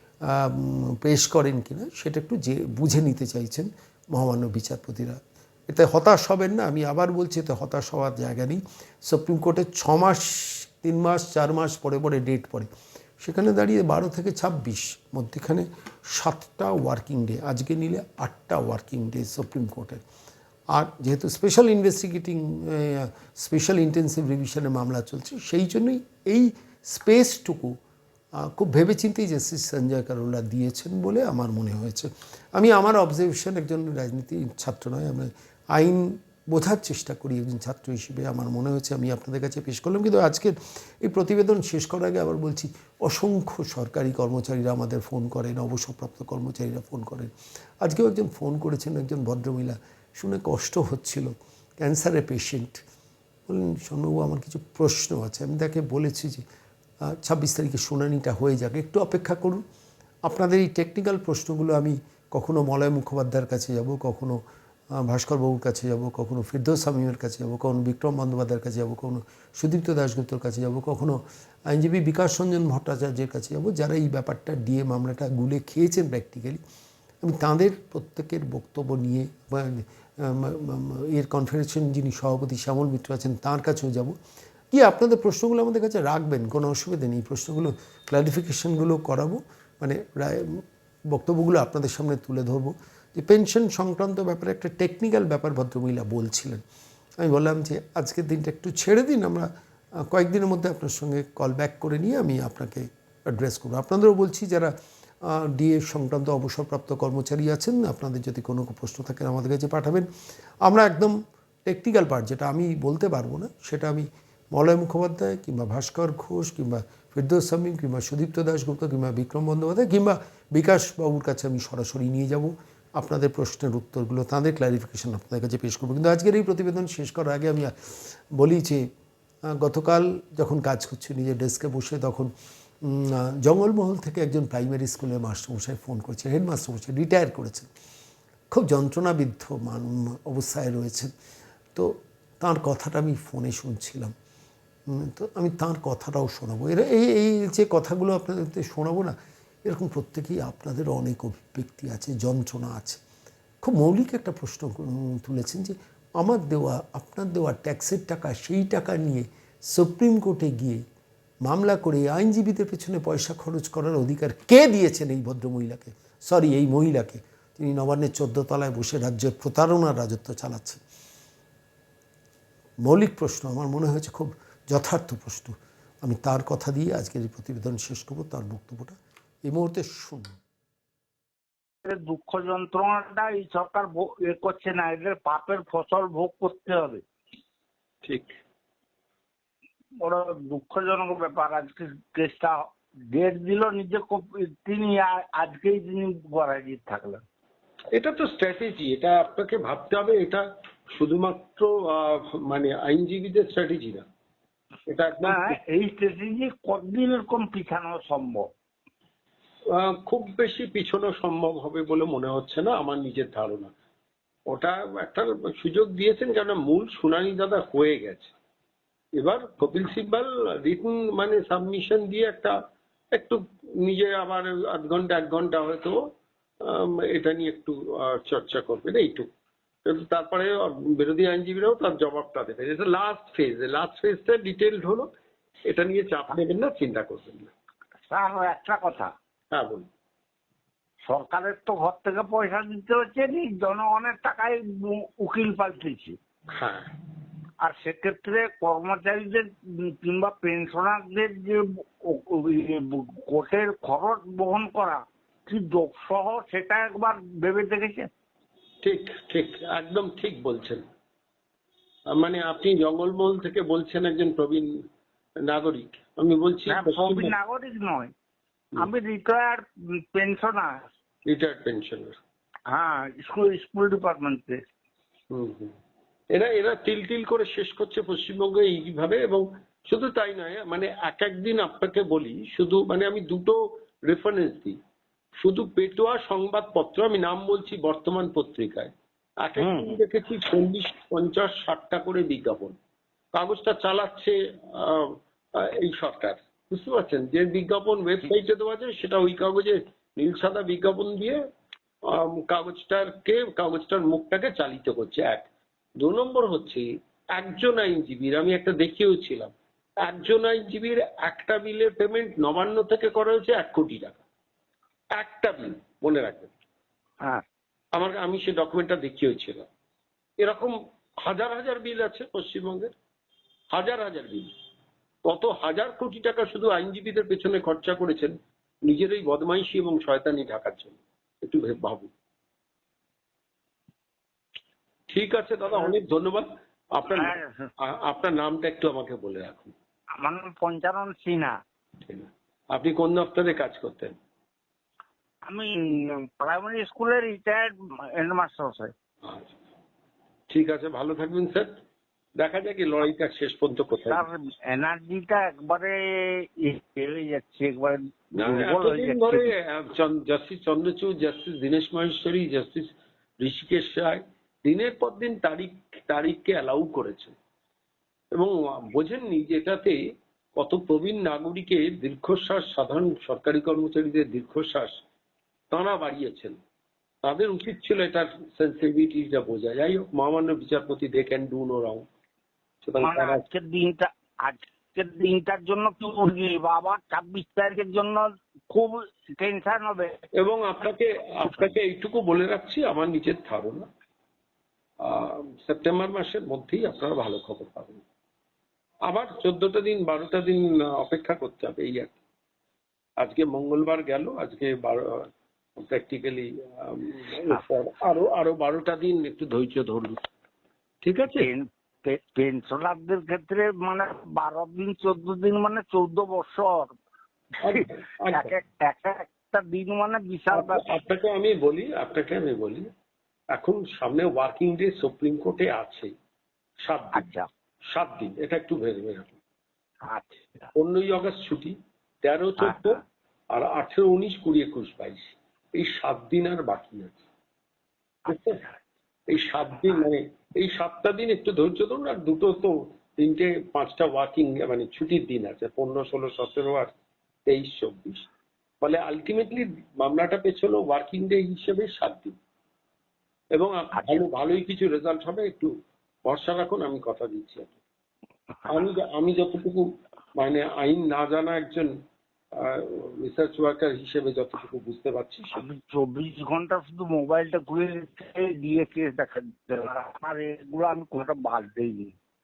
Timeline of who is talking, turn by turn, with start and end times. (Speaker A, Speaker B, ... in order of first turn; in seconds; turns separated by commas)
Speaker A: 0.2-12.7, Speaker A: 13.2-20.0, Speaker A: 20.7-27.8, Speaker A: 28.4-47.3, Speaker A: 47.8-52.8, Speaker A: 53.5-56.4, Speaker A: 57.1-59.6, Speaker A: 60.3-64.4, Speaker A: 65.0-76.6, Speaker A: 77.2-84.2, Speaker A: 84.7-96.6, Speaker A: 97.2-99.5, Speaker A: 100.0-110.1, Speaker A: 110.6-128.9, Speaker A: 129.5-132.3, Speaker A: 132.8-137.7, Speaker A: 138.5-141.1, Speaker A: 141.8-144.1, Speaker A: 144.9-149.2, Speaker A: 149.7-153.0, Speaker A: 153.6-160.8, Speaker A: 161.4-170.8, Speaker A: 172.8-180.4, Speaker B: 181.8-187.0, Speaker C: 188.0-188.3, Speaker B: 190.0-197.2, Speaker C: 197.9-200.4, Speaker C: 200.9-204.1, Speaker C: 204.9-205.6, Speaker B: 205.3-208.5, Speaker C: 209.7-213.7, Speaker C: 214.5-218.3, Speaker C: 219.2-222.6, Speaker C: 223.1-226.0, Speaker C: 226.6-229.3, Speaker C: 229.9-235.1, Speaker C: 235.7-237.5, Speaker B: 238.1-239.1, Speaker C: 239.5-239.9, Speaker B: 241.1-246.2, Speaker C: 246.6-246.9, Speaker B: 247.6-258.1, Speaker C: 258.8-260.8, Speaker C: 262.1-264.7, Speaker C: 265.4-267.3, Speaker B: 266.7-268.1, Speaker B: 268.8-270.8, Speaker C: 271.3-272.2, Speaker B: 272.7-274.6, Speaker C: 275.3-275.7, Speaker C: 276.3-284.8, Speaker C: 285.4-292.8, Speaker B: 289.6-290.0, Speaker C: 293.4-301.4, Speaker C: 302.1-305.5, Speaker C: 306.0-314.2, Speaker C: 315.2-316.5, Speaker C: 318.0-319.7, Speaker C: 320.4-322.9, Speaker C: 323.7-324.5, Speaker C: 325.2-332.1, Speaker C: 335.1-339.7, Speaker B: 337.1-337.7, Speaker B: 340.2-341.6, Speaker C: 342.0-344.1, Speaker B: 345.5-348.9, Speaker C: 349.2-349.5, Speaker C: 350.5-351.7, Speaker C: 352.4-354.3, Speaker B: 354.1-359.5, Speaker C: 358.4-367.3, Speaker C: 368.4-370.0, Speaker C: 370.6-375.0, Speaker C: 375.7-376.6, Speaker C: 377.2-382.1, Speaker C: 382.8-383.4, Speaker B: 383.0-390.2, Speaker C: 390.4-393.9, Speaker C: 395.0-398.0, Speaker C: 399.1-402.2, Speaker C: 403.2-410.2, Speaker C: 411.0-411.5, Speaker B: 411.4-416.9, Speaker B: 417.6-420.9, Speaker C: 417.6-418.5, Speaker C: 420.5-422.9, Speaker C: 423.5-426.1, Speaker C: 426.9-427.3, Speaker B: 427.1-427.5, Speaker C: 427.9-429.4, Speaker B: 430.1-430.7, Speaker C: 430.8-433.0, Speaker B: 432.6-433.0, Speaker C: 433.5-437.2, Speaker B: 438.3-438.8, Speaker C: 438.3-438.6, Speaker C: 439.3-446.9, Speaker C: 447.5-448.3, Speaker C: 448.8-452.4, Speaker C: 453.6-455.7, Speaker B: 453.9-454.3, Speaker C: 456.3-457.7, Speaker B: 458.6-458.9, Speaker C: 458.7-459.9, Speaker C: 460.4-461.9, Speaker C: 462.6-465.6, Speaker B: 465.6-472.1